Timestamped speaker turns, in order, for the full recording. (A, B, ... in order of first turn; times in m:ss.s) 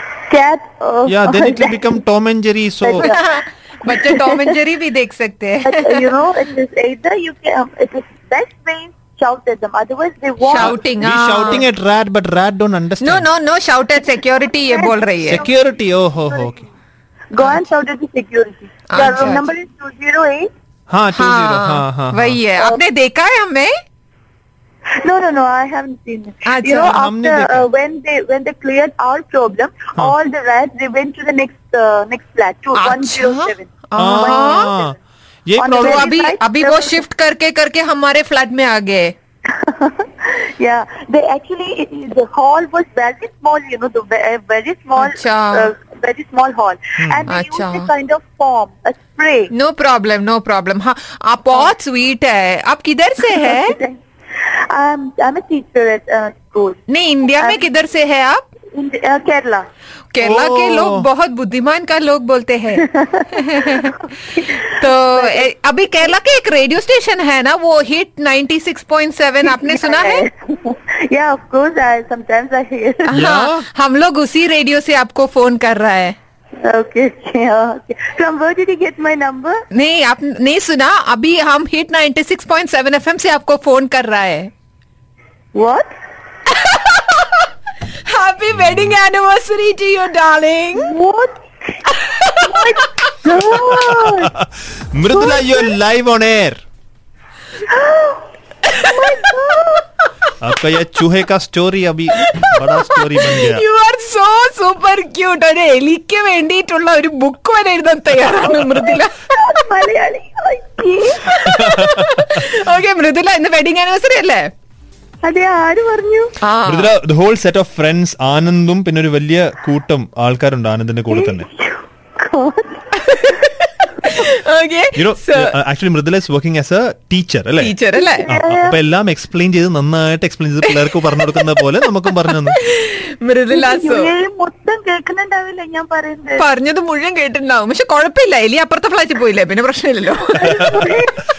0:00.3-0:02.0 A
0:01.1-0:03.1 B
0:02.8-0:03.2 A
0:03.0-0:06.0 C
0:03.9-0:04.6 A
0:05.6-0:10.8 A
0:10.4-0:11.7 C
0:10.6-0:13.3 B
0:13.0-0:15.5 C
0:14.7-0:15.5 A
0:15.2-0:16.7 B
0:16.3-0:16.6 A
0:17.3-0:20.5 A
0:17.4-0:17.7 C
0:18.9-0:19.5 C
0:20.9-0:22.4 B
0:21.1-0:23.7 C
0:25.0-0:35.0 A
0:26.4-0:27.0 C
0:26.9-0:27.7 B
0:32.8-0:34.7 C
0:34.0-0:36.1 B
0:35.6-0:37.0 A
0:35.8-0:39.1 C
0:39.5-0:49.5 A
0:45.0-0:45.7 C
0:47.0-0:47.3 B
0:47.3-0:47.9 C
0:49.5-0:53.8 C
0:53.2-0:56.8 A
0:56.9-0:58.4 C
0:57.4-0:57.7 A
0:58.7-0:59.6 A
1:00.1-1:10.2 C
1:00.2-1:01.1 B
1:02.8-1:04.6 A
1:05.2-1:05.5 A
1:09.4-1:13.3 A
1:13.1-1:16.2 C
1:13.1-1:13.7 B
1:16.6-1:19.6 A
1:19.7-1:24.5 C
1:25.6-1:25.9 A
1:26.5-1:27.5 C
1:28.0-1:30.9 C
1:30.8-1:34.3 A
1:32.0-1:32.8 C
1:33.5-1:36.6 B
1:35.2-1:35.5 A
1:37.7-1:39.9 A
1:38.7-1:39.0 C
1:40.4-1:43.6 B
1:42.3-1:49.2 C
1:49.3-1:51.3 A
1:51.2-1:54.5 C
1:51.4-1:52.5 B
1:55.2-1:56.3 A
1:56.4-1:56.9 C
1:56.7-2:01.5 B
2:01.1-2:03.4 A
2:03.0-2:05.6 C
2:05.0-2:07.7 B
2:07.6-2:08.3 C
2:07.9-2:08.8 A
2:08.3-2:12.6 B
2:10.6-2:14.1 C
2:13.5-2:16.4 A
2:16.4-2:20.9 C
2:20.3-2:21.2 A